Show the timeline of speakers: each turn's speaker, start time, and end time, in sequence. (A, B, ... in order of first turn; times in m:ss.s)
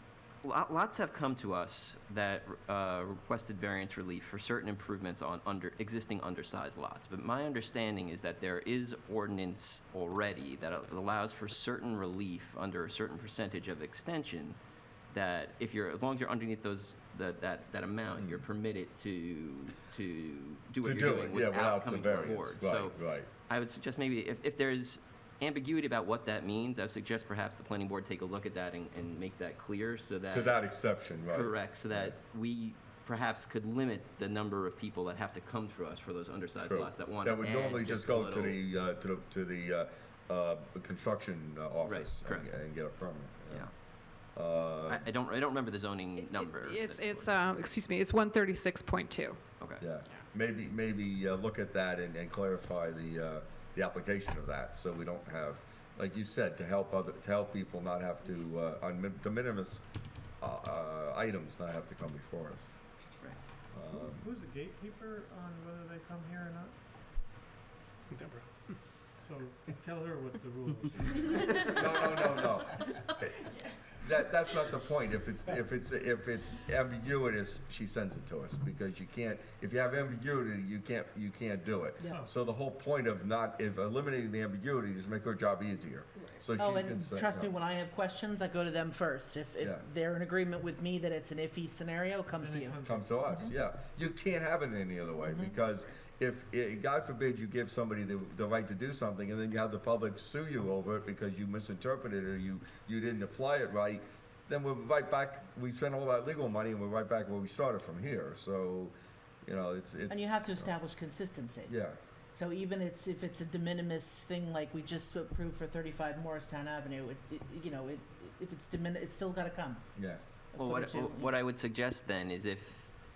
0:00.4-0:14.6 A
0:15.1-0:30.6 A
0:20.8-0:23.3 B
0:30.3-0:32.1 B
0:31.3-0:38.6 A
0:36.6-0:43.7 B
0:41.8-0:42.5 A
0:44.3-0:45.0 B
0:44.8-0:47.8 A
0:46.2-0:49.4 C
0:49.8-0:59.8 B
1:00.4-1:02.7 B
1:03.7-1:04.3 B
1:03.9-1:06.8 D
1:09.2-1:12.1 D
1:11.6-1:27.5 B
1:22.0-1:22.3 D
1:26.6-1:32.8 E
1:32.4-1:33.4 D
1:32.8-1:50.7 B
1:35.2-1:35.5 E
1:50.1-1:51.7 E
1:51.7-1:52.0 B
1:52.3-1:59.8 E
2:00.0-2:00.2 B
2:00.5-2:01.3 E
2:00.6-2:02.9 A